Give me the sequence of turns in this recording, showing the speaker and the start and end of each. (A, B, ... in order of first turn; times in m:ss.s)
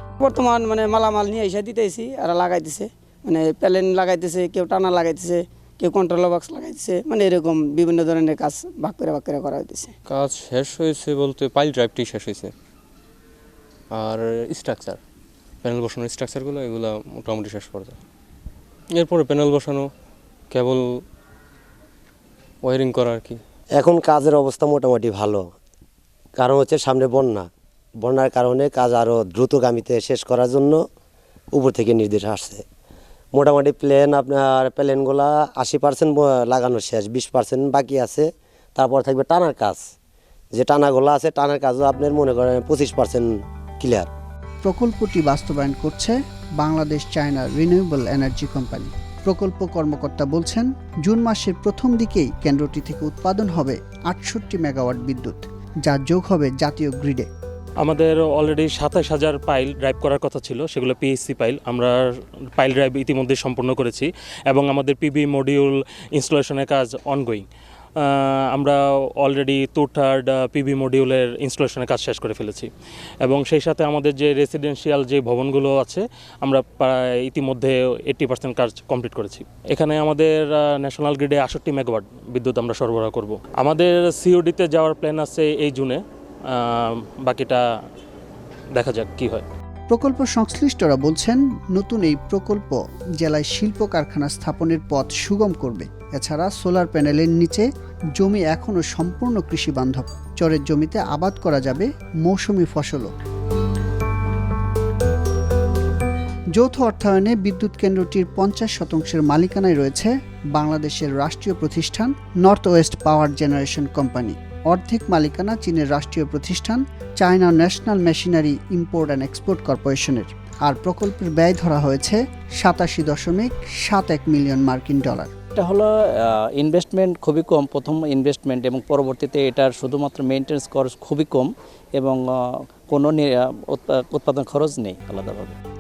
0:00.2-0:09.9 A
0:10.1-0:12.5 B
0:13.9-0:15.0 B
0:15.6-0:18.0 B
0:18.9-0:19.9 B
0:20.5-0:21.0 B
0:22.6-0:23.4 B
0:23.8-0:25.4 C
0:26.4-0:27.5 C
0:28.0-0:30.8 C
0:31.5-0:32.6 C
0:33.3-0:39.8 C
0:40.5-0:44.1 C
0:44.6-0:57.3 D
0:57.8-1:02.0 E
1:02.6-1:07.4 E
1:08.0-1:12.7 E
1:13.2-1:27.6 E
1:28.8-1:29.4 E
1:29.9-1:43.1 D
1:46.5-2:05.3 D
2:05.6-2:15.6 F